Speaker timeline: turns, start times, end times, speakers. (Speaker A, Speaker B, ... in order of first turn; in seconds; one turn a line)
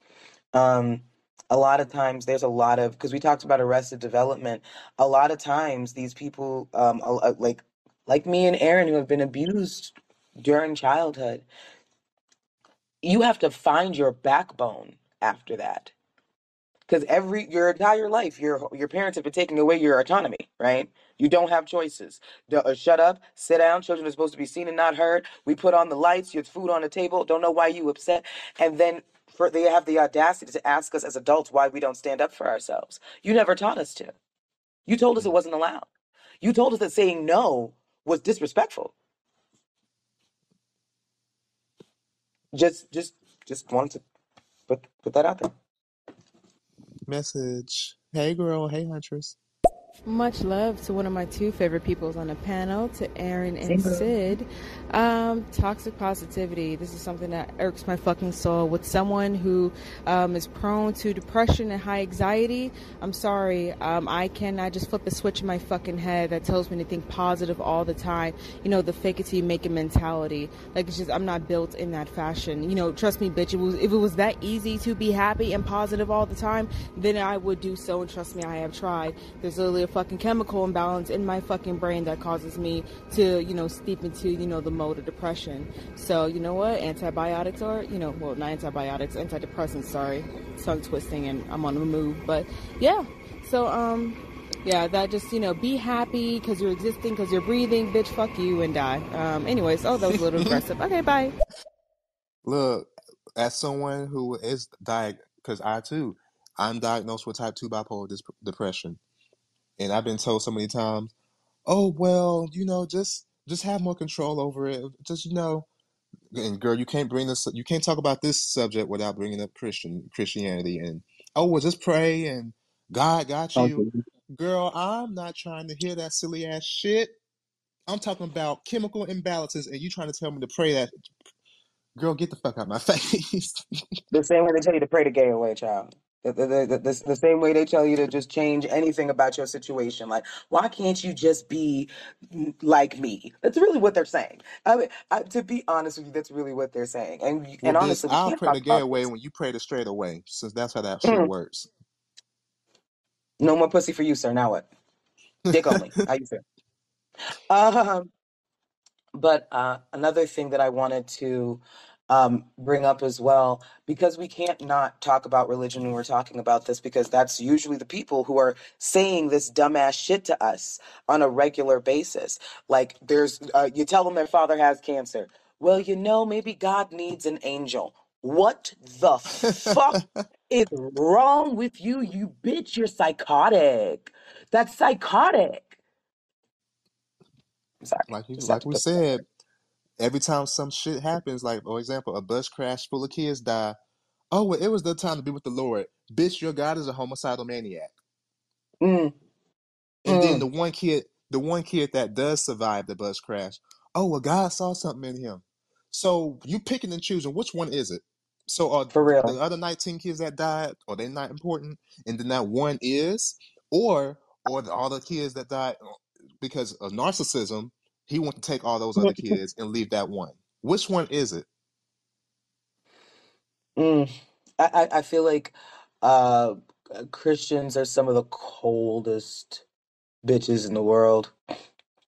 Speaker A: 0.5-11.5
Speaker A: 13.0-15.9
Speaker A: 16.9-34.1
Speaker A: 34.9-35.9
Speaker A: 36.4-38.9
Speaker A: 42.5-44.0
Speaker A: 44.7-45.5
Speaker B: 47.1-49.4
Speaker C: 50.1-101.3
Speaker A: 53.6-54.1
Speaker B: 102.5-109.0
Speaker B: 109.8-111.1
Speaker B: 111.7-115.7
Speaker B: 116.3-127.2
Speaker A: 123.6-124.0
Speaker B: 127.9-130.9
Speaker B: 132.0-133.6
Speaker A: 134.1-148.9
Speaker B: 147.6-151.7
Speaker A: 151.1-151.3
Speaker A: 153.4-154.7
Speaker B: 155.5-155.8
Speaker A: 155.5-156.4
Speaker A: 157.5-158.1
Speaker A: 159.2-180.0
Speaker B: 179.5-180.1
Speaker A: 180.5-185.8
Speaker A: 187.8-189.2
Speaker B: 188.1-189.2
Speaker B: 190.0-193.8
Speaker B: 194.3-197.9
Speaker A: 198.8-199.2
Speaker B: 200.1-221.5
Speaker A: 200.1-200.5
Speaker A: 208.9-209.4
Speaker A: 219.0-219.3
Speaker A: 223.8-229.6
Speaker A: 230.2-231.3